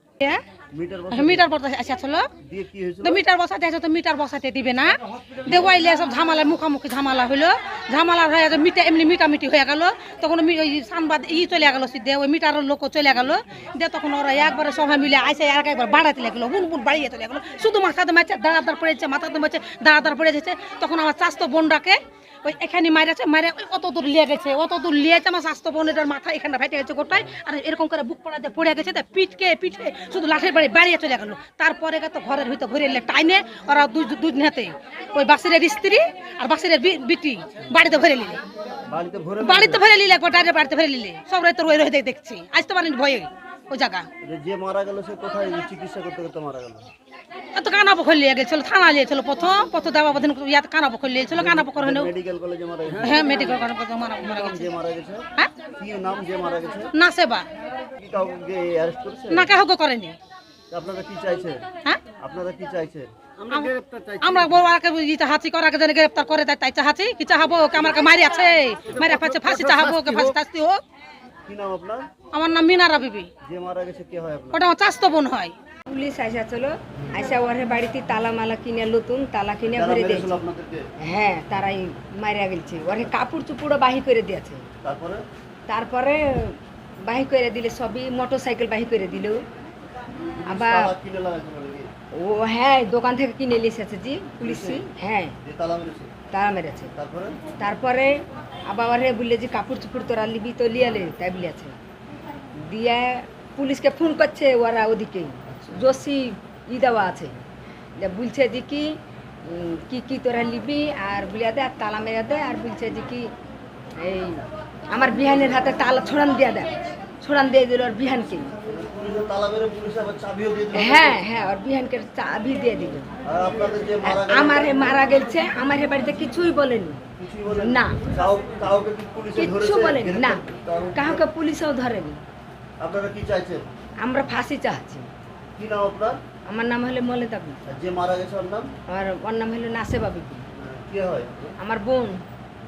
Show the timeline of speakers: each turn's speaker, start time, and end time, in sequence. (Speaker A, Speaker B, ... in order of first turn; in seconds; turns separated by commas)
Speaker A: 0.7-1.6, Speaker B: 1.1-2.3, Speaker A: 2.4-3.2, Speaker B: 3.0-38.4, Speaker A: 38.9-39.8, Speaker B: 39.4-44.1, Speaker A: 44.2-46.9, Speaker B: 47.5-52.1, Speaker A: 51.3-53.7, Speaker B: 53.0-54.7, Speaker A: 54.2-56.9, Speaker B: 56.9-57.5, Speaker A: 58.0-59.5, Speaker B: 59.3-60.2, Speaker A: 60.7-61.6, Speaker A: 62.2-63.1, Speaker B: 63.5-70.8, Speaker A: 71.5-72.1, Speaker B: 72.3-73.3, Speaker A: 73.4-74.6, Speaker B: 74.5-75.5, Speaker C: 75.9-80.4, Speaker A: 79.7-80.9, Speaker C: 81.0-84.7, Speaker A: 84.8-85.2, Speaker C: 85.7-89.4, Speaker A: 90.3-91.9, Speaker C: 90.5-90.9, Speaker C: 92.1-95.3, Speaker A: 94.4-94.8, Speaker A: 95.4-96.1, Speaker C: 96.3-96.9, Speaker A: 96.9-97.4, Speaker C: 97.6-101.8, Speaker C: 102.5-107.4, Speaker C: 108.0-113.3, Speaker C: 114.0-118.5, Speaker A: 118.6-121.2, Speaker C: 120.7-123.1, Speaker A: 123.2-124.9, Speaker C: 124.0-128.0, Speaker A: 127.2-131.2, Speaker C: 129.3-132.2, Speaker A: 132.8-133.7, Speaker C: 134.0-135.1, Speaker A: 135.6-136.2, Speaker C: 136.4-137.6, Speaker A: 137.6-138.7, Speaker C: 138.9-140.5, Speaker A: 140.5-141.6, Speaker C: 141.6-142.2